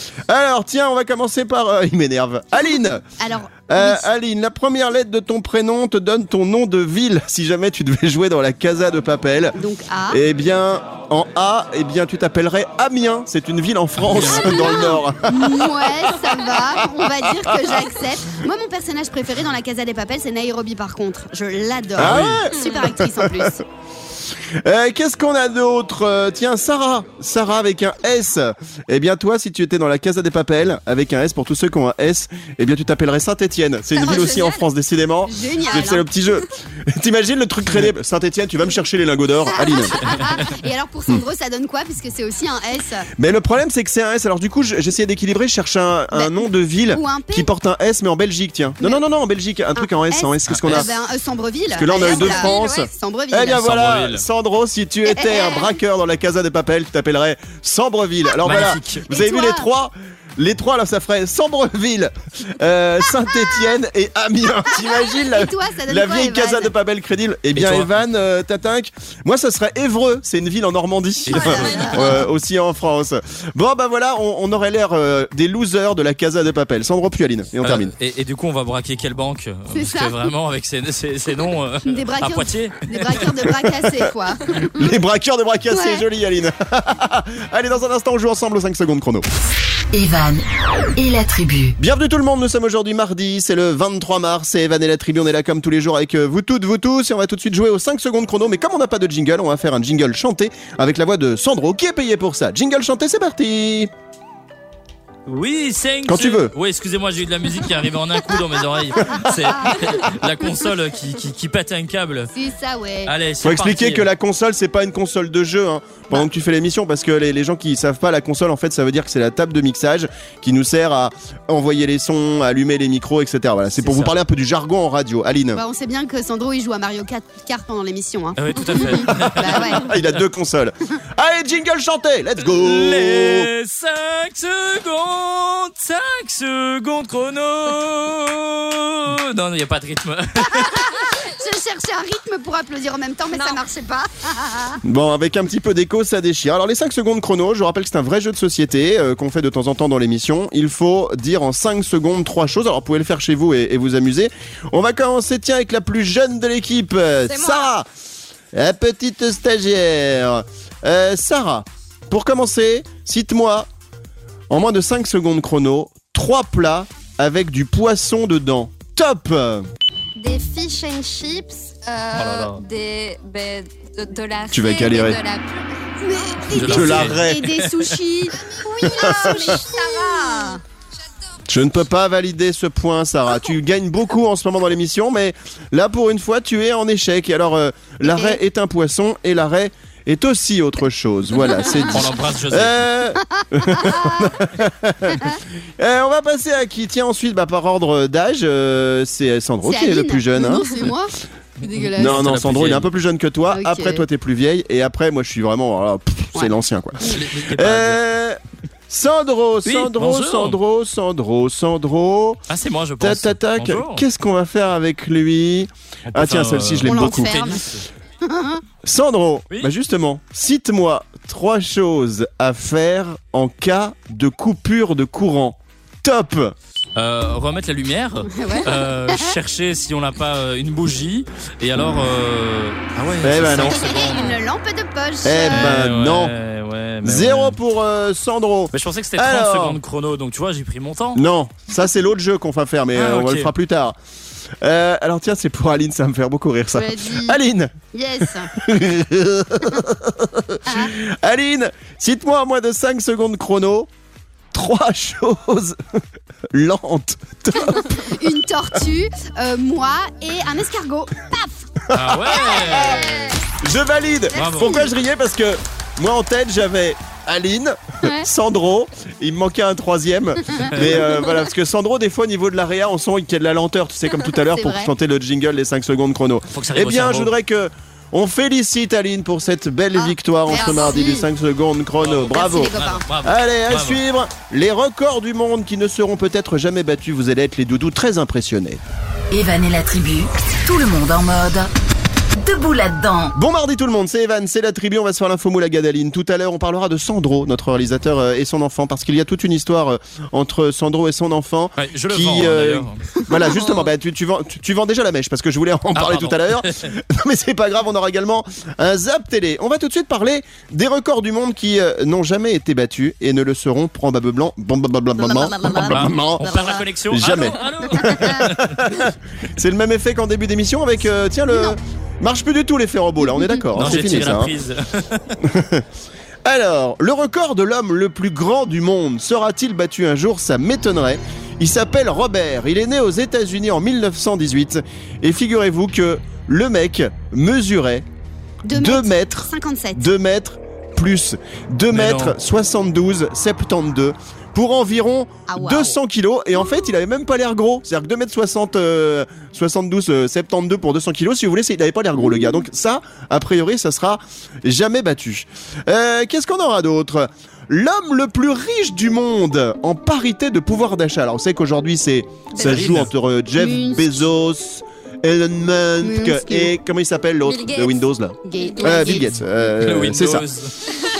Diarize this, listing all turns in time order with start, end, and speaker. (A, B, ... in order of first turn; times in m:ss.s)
0:00.3-0:03.0 A
0:03.2-0:04.1 B
0:03.7-0:09.6 A
0:09.5-0:10.2 B
0:10.1-0:17.8 A
0:14.0-0:14.6 C
0:14.3-0:23.6 B
0:22.0-0:23.6 A
0:22.0-0:22.4 C
0:24.6-0:40.1 A
0:34.0-0:34.6 D
0:35.3-0:36.0 B
0:39.5-0:43.1 B
0:43.2-0:50.9 A
0:46.1-0:47.5 B
0:49.8-0:53.6 B
0:50.5-0:50.9 C
0:51.7-1:17.9 A
0:52.0-0:52.9 D
0:53.5-0:54.2 C
0:55.1-0:55.7 B
0:58.4-0:59.0 C
0:59.1-0:59.6 B
1:04.8-1:06.7 B
1:07.5-1:07.9 C
1:11.3-1:12.0 C
1:11.3-1:12.1 B
1:11.4-1:12.1 D
1:17.6-1:23.3 C
1:19.7-1:20.2 B
1:21.8-1:24.9 B
1:24.5-1:29.3 A
1:25.7-1:26.0 B
1:29.9-1:30.4 E
1:31.0-1:31.8 E
1:31.8-1:43.9 A
1:45.3-1:52.3 C
1:46.0-1:46.5 A
1:52.3-1:53.1 B
1:53.0-1:54.1 C
1:53.4-2:05.6 A
2:03.8-2:04.1 C
2:05.5-2:09.9 B
2:08.4-2:10.1 C
2:09.4-2:13.5 A
2:12.5-2:20.9 C
2:20.4-2:24.8 B
2:23.3-2:23.6 D
2:24.8-2:37.9 A
2:37.2-2:37.7 D
2:38.5-2:43.7 A
2:44.5-2:49.6 A
2:50.2-2:55.6 D
2:52.1-2:52.6 C
2:54.5-2:55.2 A
2:56.0-3:00.6 B
2:56.5-2:57.2 C
2:56.5-2:57.6 A
2:58.6-3:00.6 D
2:58.8-2:59.6 A
3:01.5-3:20.8 A
3:08.0-3:08.4 B
3:11.9-3:12.8 C
3:13.4-3:14.3 B
3:19.6-3:22.2 B
3:21.6-3:22.9 C
3:22.0-3:32.4 A
3:23.5-3:24.0 B
3:27.0-3:28.0 C
3:29.6-3:30.6 C
3:32.5-3:34.0 C
3:33.0-3:37.4 A
3:36.1-3:37.8 C
3:36.8-3:37.6 B
3:38.2-3:38.6 B
3:38.8-3:46.5 A
3:47.0-3:54.4 C
3:48.3-3:49.3 B
3:53.2-3:53.8 A
3:53.6-3:55.8 B
3:55.2-3:56.3 A
3:55.5-3:57.6 C
3:57.0-3:59.8 A
3:58.7-4:01.2 C
4:01.1-4:04.0 A
4:02.9-4:03.5 C
4:04.6-4:13.9 A
4:06.7-4:07.4 B
4:07.9-4:08.5 B
4:10.6-4:10.9 B
4:14.5-4:15.8 A
4:16.5-4:18.0 A
4:17.6-4:21.7 B
4:21.9-4:48.8 A
4:21.9-4:23.3 C
4:24.3-4:24.8 C
4:24.4-4:24.9 B
4:28.0-4:28.3 B
4:30.7-4:31.0 C
4:34.5-4:34.9 B
4:36.5-4:37.3 C
4:40.0-4:41.3 B
4:42.0-4:44.0 C
4:42.3-4:43.0 B
4:49.3-4:51.7 E
4:52.4-4:53.3 E
4:53.3-5:24.5 A
5:01.8-5:03.1 C
5:05.9-5:06.9 C
5:15.4-5:15.7 B
5:15.4-5:15.8 D
5:15.7-5:18.8 C
5:21.5-5:21.8 B
5:23.3-5:23.6 B
5:23.7-5:25.3 C
5:25.4-5:25.8 A
5:26.4-5:38.0 A
5:38.6-5:40.1 B
5:38.7-6:10.4 A
5:41.9-5:42.4 C
5:45.5-5:46.0 B
6:02.6-6:03.1 C
6:03.6-6:04.3 B
6:06.0-6:06.7 B
6:07.4-6:08.0 D
6:08.4-6:09.3 B
6:08.6-6:09.2 D
6:09.6-6:10.7 C